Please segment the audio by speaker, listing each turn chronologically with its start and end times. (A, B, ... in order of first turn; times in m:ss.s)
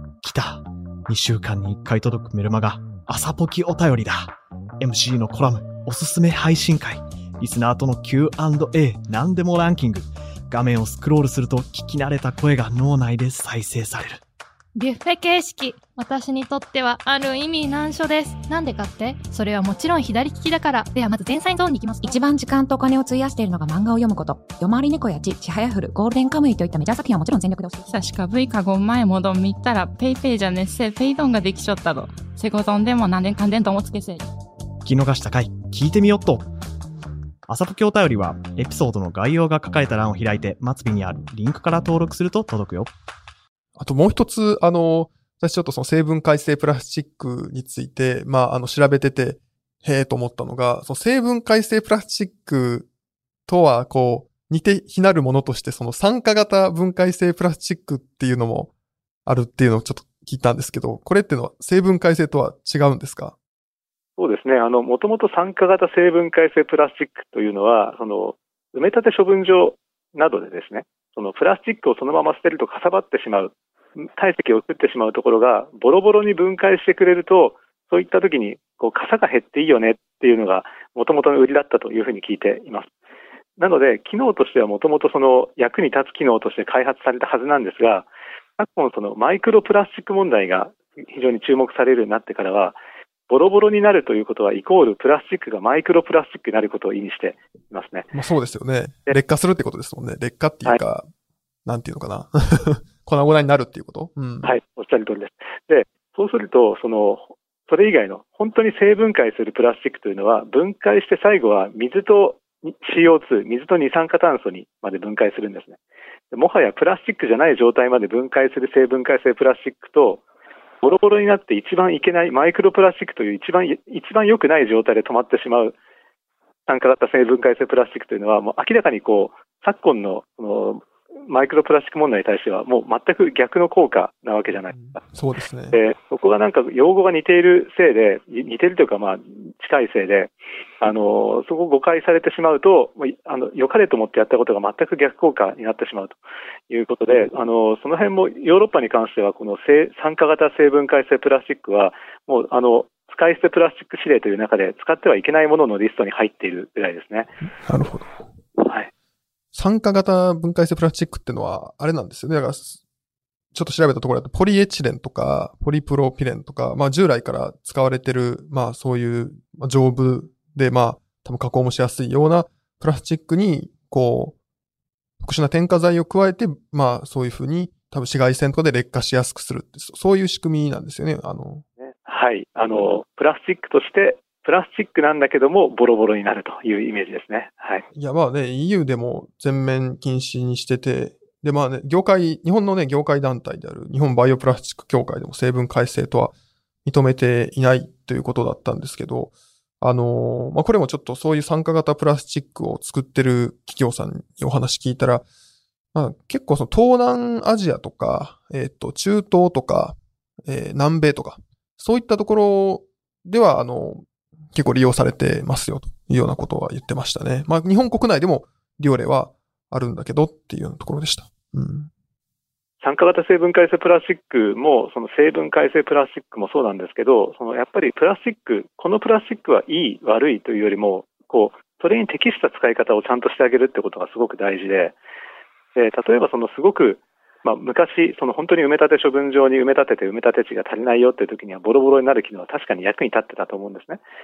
0:00.2-0:14.2 A
0:14.8-0:22.1 B
0:22.0-0:27.9 C
0:27.9-0:34.2 D
0:34.8-0:36.5 A
0:37.4-0:42.9 A
0:43.8-0:52.9 E
0:53.5-0:58.7 E
0:59.2-1:03.3 E
1:04.2-1:22.9 F
1:23.6-1:32.8 F
1:33.3-1:38.1 F
1:38.1-1:41.1 E
1:41.6-1:44.5 E
1:44.4-1:55.8 F
1:56.3-2:00.2 F
2:00.8-2:05.8 F
2:06.7-2:15.0 F
2:14.7-2:15.8 E
2:15.7-2:37.3 F
2:37.6-2:38.2 E
2:38.6-2:38.9 F
2:39.5-2:42.8 E
2:43.5-2:54.3 E
2:55.2-3:01.6 E
3:01.9-3:07.8 F
3:07.9-3:16.3 E
3:16.8-3:25.2 E
3:25.9-3:41.9 E
3:42.8-3:55.0 F
3:55.8-4:04.0 F